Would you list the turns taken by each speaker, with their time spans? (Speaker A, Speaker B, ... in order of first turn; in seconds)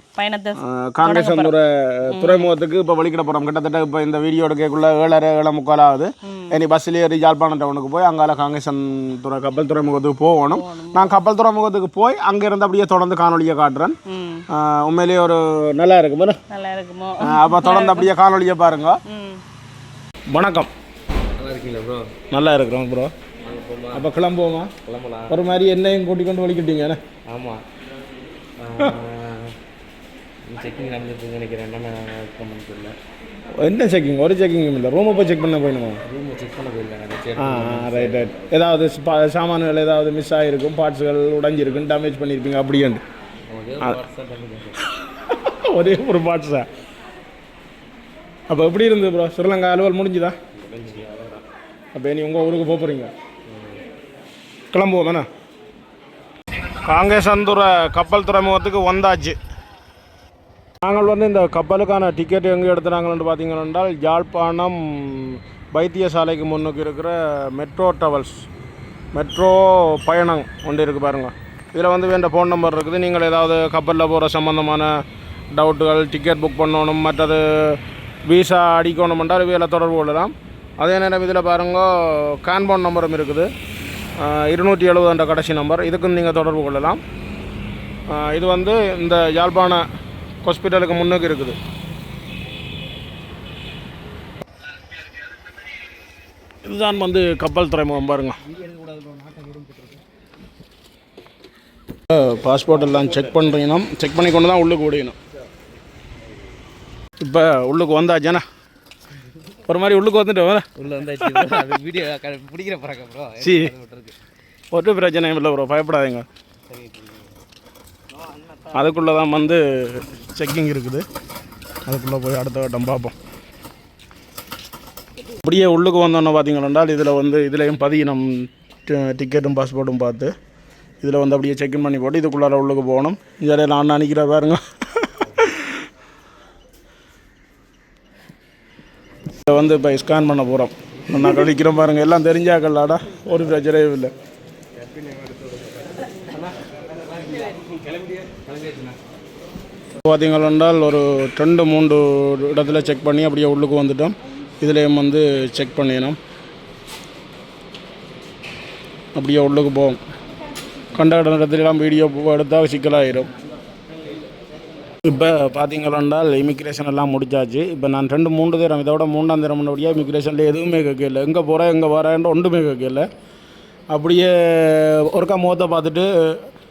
Speaker A: 0.2-1.6, 2.1-2.5, 6.2-6.6, 10.5-11.2, 14.1-14.5, 16.5-18.1, 19.1-19.4
Speaker B: 0.6-14.0, 14.5-16.4, 17.2-19.0, 20.3-20.7, 22.3-23.1, 23.9-24.7, 25.3-27.0, 33.6-36.0, 37.4-43.0, 44.9-46.7, 48.5-50.4, 51.9-53.1, 54.7-55.3, 56.8-59.4, 60.8-68.5, 69.1-83.5, 84.2-87.0, 88.1-89.8, 90.4-91.6, 96.6-98.4, 102.1-105.2, 107.2-108.4, 109.7-110.7, 113.4-113.7, 114.7-116.3, 118.7-121.1, 121.9-123.2, 125.4-130.3, 131.0-135.8, 139.4-144.1, 150.0-156.2, 159.2-160.0, 160.9-163.3, 165.1-173.1, 173.9-176.5
Speaker C: 21.4-22.1, 23.4-24.1, 24.9-25.4, 27.3-27.6, 28.6-29.6, 30.5-33.0, 36.0-38.5, 43.5-44.8, 50.6-51.4, 53.5-53.8, 98.5-99.9, 110.8-114.2, 116.7-117.3, 118.2-118.9, 144.8-149.0